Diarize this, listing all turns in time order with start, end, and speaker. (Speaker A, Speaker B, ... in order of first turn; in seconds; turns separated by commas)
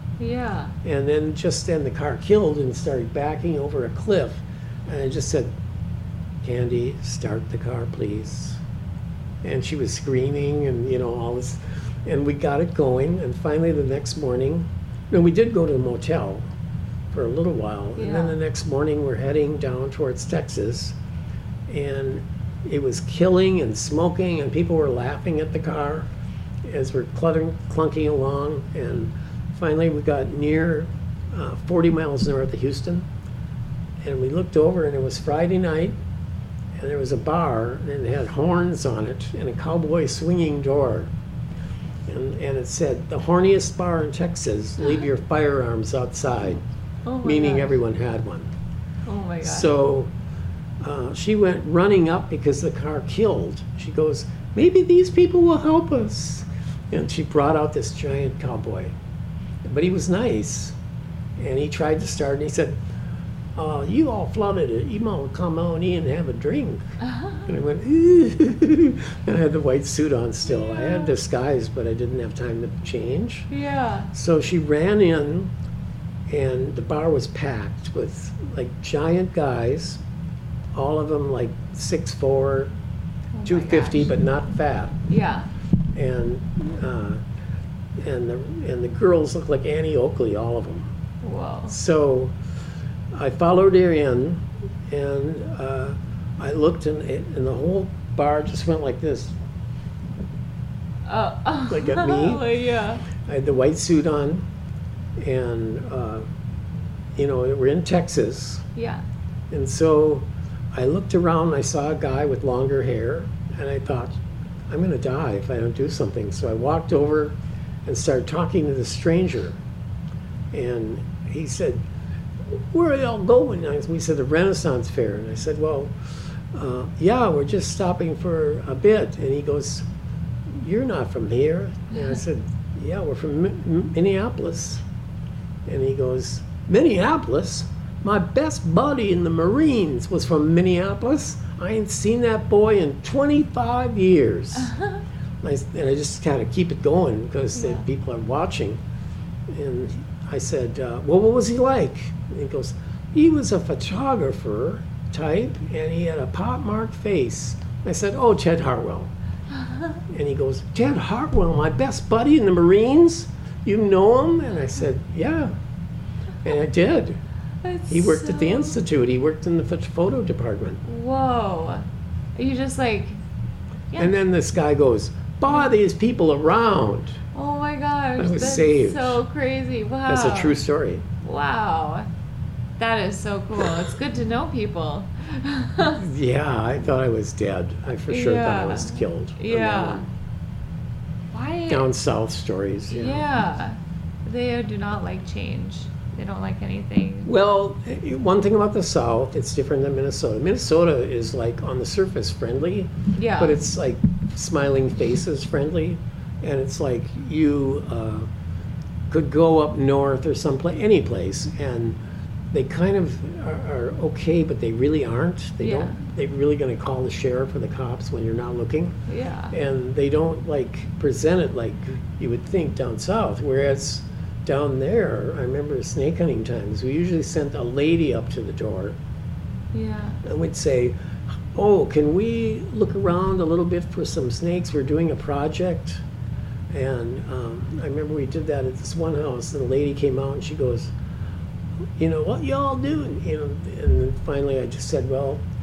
Speaker A: 0.2-0.7, Speaker B: 0.8-5.5, Speaker B: 6.4-8.6, Speaker B: 9.4-16.5, Speaker B: 17.1-21.0, Speaker A: 18.0-18.3, Speaker B: 21.7-26.1, Speaker B: 26.6-33.1, Speaker B: 34.0-36.0, Speaker B: 36.8-41.1, Speaker B: 42.1-46.6, Speaker A: 47.0-47.8, Speaker B: 47.2-48.5, Speaker A: 49.0-49.7, Speaker B: 49.4-50.1, Speaker B: 50.8-59.0, Speaker B: 59.6-60.8, Speaker B: 61.4-62.8, Speaker B: 63.5-66.9, Speaker A: 67.0-67.3, Speaker B: 67.4-73.5, Speaker A: 70.8-71.1, Speaker A: 73.5-74.1, Speaker B: 74.1-75.5, Speaker B: 76.3-80.0, Speaker B: 80.7-82.7, Speaker A: 83.3-84.1, Speaker B: 83.5-85.0, Speaker A: 85.1-85.5, Speaker B: 85.9-87.2, Speaker B: 88.0-90.9, Speaker A: 91.2-91.8, Speaker B: 91.7-92.3, Speaker B: 93.1-99.4, Speaker A: 101.0-103.0, Speaker B: 101.7-102.4, Speaker B: 103.2-104.5, Speaker B: 105.2-106.2, Speaker B: 107.2-108.6, Speaker A: 108.8-109.0, Speaker B: 109.5-119.6, Speaker B: 120.5-121.8, Speaker B: 122.5-129.9, Speaker B: 130.5-134.8, Speaker B: 135.7-144.7, Speaker B: 145.4-148.8, Speaker A: 147.6-147.8, Speaker B: 149.5-159.1, Speaker B: 160.1-165.5, Speaker B: 166.4-167.2, Speaker A: 167.6-168.8, Speaker B: 167.9-170.8, Speaker A: 170.8-173.2, Speaker B: 173.9-177.2, Speaker A: 177.3-180.6, Speaker B: 178.2-179.2, Speaker B: 180.1-181.0, Speaker A: 181.2-182.1, Speaker A: 182.8-186.1, Speaker B: 186.0-190.1, Speaker A: 188.1-190.0, Speaker A: 191.3-191.9, Speaker B: 191.7-193.3, Speaker A: 192.9-197.3, Speaker B: 197.2-208.3, Speaker A: 203.1-203.6, Speaker B: 209.1-212.0, Speaker B: 212.5-219.0, Speaker A: 215.6-216.0, Speaker A: 219.1-219.5, Speaker B: 219.5-229.0, Speaker A: 229.7-230.2, Speaker B: 230.2-230.9, Speaker B: 231.5-236.0, Speaker B: 236.7-240.9, Speaker B: 242.0-245.4